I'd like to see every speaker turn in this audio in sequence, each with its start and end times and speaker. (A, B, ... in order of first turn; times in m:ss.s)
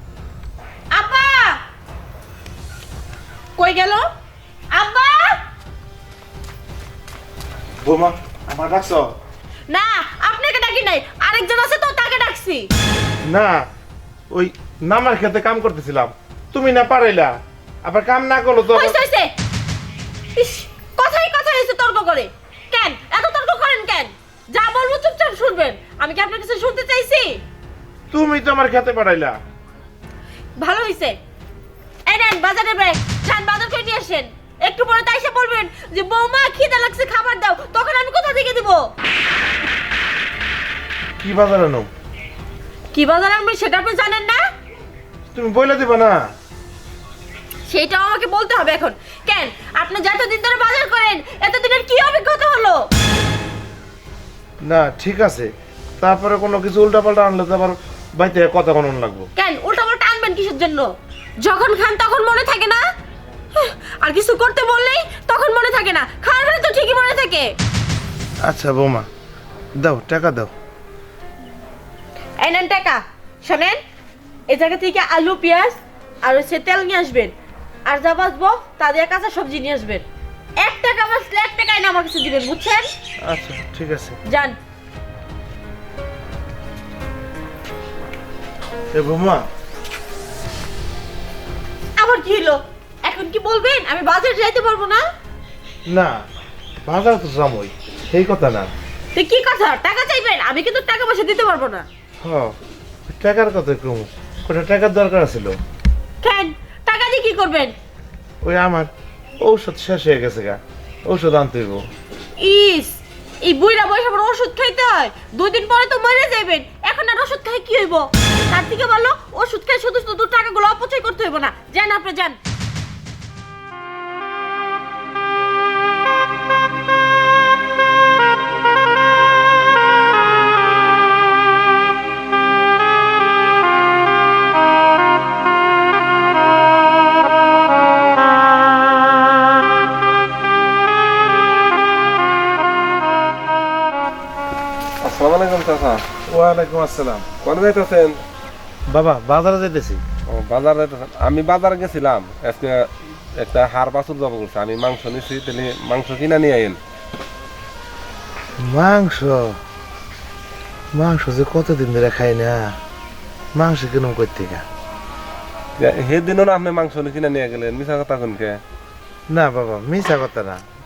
0:00.9-0:01.6 A
0:03.6-0:04.0 A
0:04.7-0:05.4 A
0:07.8-0:09.1 B
0:09.7-0:12.7 A
0:13.2-0:13.6 B
0:14.3-0:17.3 B
0:17.8-0:19.0 B
0:18.7-0:19.3 A
0:20.4-0:27.4 A
0:28.1-0:29.4 B
0:30.6-0:31.2 A
0:32.1-0:38.9 A
0:41.2-0:41.9 B
0:42.9-0:44.4 A
0:45.3-0:46.2 B
0:47.7-0:52.8 A
0:54.6-0:59.3 B
0:59.4-1:00.9 A
1:01.4-1:02.8 A
1:03.6-1:07.5 A
1:08.4-1:09.0 B
1:09.8-1:10.5 B
1:12.4-1:13.8 A
1:14.5-1:17.3 A
1:17.8-1:20.0 A
1:20.6-1:22.9 A
1:23.3-1:24.2 B
1:24.3-1:24.6 A
1:28.9-1:29.4 B
1:32.0-1:35.0 A
1:36.8-1:38.7 B
1:39.2-1:41.8 A
1:42.2-1:42.5 B
1:43.1-1:45.5 B
1:46.2-1:47.7 A
1:48.4-1:48.9 B
1:49.4-1:51.8 B
1:52.4-2:02.4 A
2:25.0-2:26.0 C
2:26.3-2:27.2 B
2:27.4-2:28.2 C
2:28.9-2:30.0 B
2:30.3-2:36.8 C
2:38.6-2:39.5 B
2:40.9-2:42.7 B
2:43.5-2:44.6 B
2:45.8-2:48.6 C
2:49.3-2:50.6 B